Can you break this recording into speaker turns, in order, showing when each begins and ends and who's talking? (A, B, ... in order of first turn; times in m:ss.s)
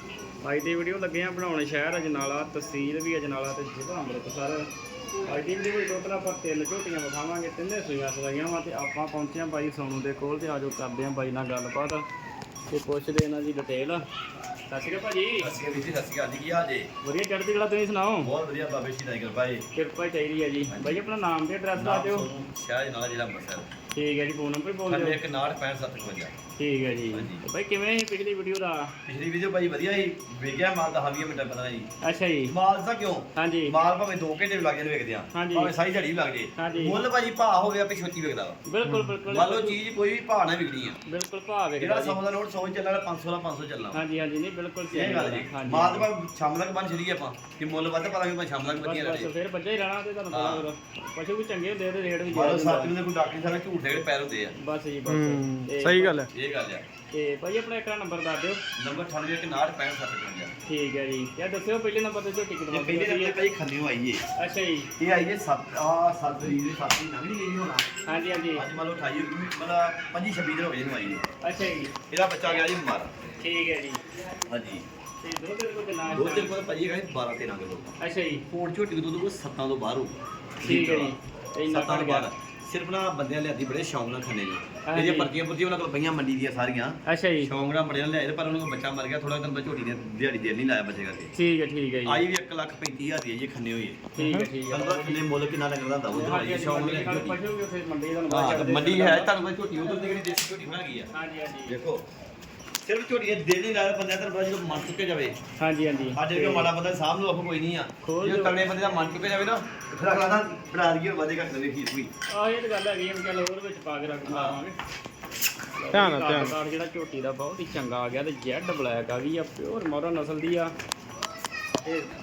0:00.4-0:04.7 A
0:05.2-0:12.0 A
0:12.7-0:14.0 A
0:14.7-0:15.5 A
0:15.4-0:16.9 B
0:17.0-0:18.3 A
0:18.2-0:19.6 B
0:19.7-0:22.3 A
0:20.7-0:21.0 B
0:21.8-0:23.7 B
0:23.9-0:25.2 A
0:24.9-0:26.3 B
0:26.6-0:28.9 A
0:27.1-0:27.4 B
0:29.0-0:31.9 B
0:32.0-0:32.5 A
0:32.5-0:38.6 B
0:33.4-0:33.8 A
0:35.3-0:35.7 A
0:36.6-0:37.0 A
0:38.6-0:39.8 A
0:38.8-0:39.1 C
0:39.3-0:41.0 B
0:41.0-0:42.2 A
0:41.8-0:44.0 B
0:43.9-0:46.1 A
0:44.9-0:49.3 B
0:48.8-0:52.9 A
0:50.3-0:50.7 B
0:52.3-0:54.5 B
0:54.6-0:56.2 A
0:55.1-0:56.3 C
0:56.3-0:56.8 B
0:57.1-0:58.6 A
0:58.8-1:00.5 B
1:00.7-1:03.4 A
1:02.7-1:04.2 B
1:04.4-1:04.9 A
1:05.0-1:07.9 B
1:08.0-1:08.7 A
1:08.5-1:11.2 B
1:11.4-1:11.9 A
1:12.1-1:13.1 B
1:13.4-1:14.0 A
1:14.4-1:14.8 B
1:15.2-1:16.5 A
1:16.1-1:17.9 B
1:18.0-1:18.4 A
1:18.5-1:21.1 B
1:20.6-1:22.3 A
1:21.7-1:31.3 B
1:24.8-1:25.3 A
1:27.0-1:27.5 A
1:31.3-1:32.2 A
1:32.0-1:34.1 B
1:34.2-1:35.2 A
1:34.2-1:34.5 C
1:34.7-1:37.4 B
1:36.1-1:39.3 A
1:38.3-1:41.1 B
1:41.1-1:41.8 A
1:41.7-1:42.0 B
1:42.8-1:45.4 B
1:45.6-1:46.7 A
1:46.2-1:52.1 B
1:48.0-1:48.6 A
1:52.3-1:54.8 A
1:54.3-1:54.6 B
1:55.7-2:00.7 A
1:55.9-1:56.5 C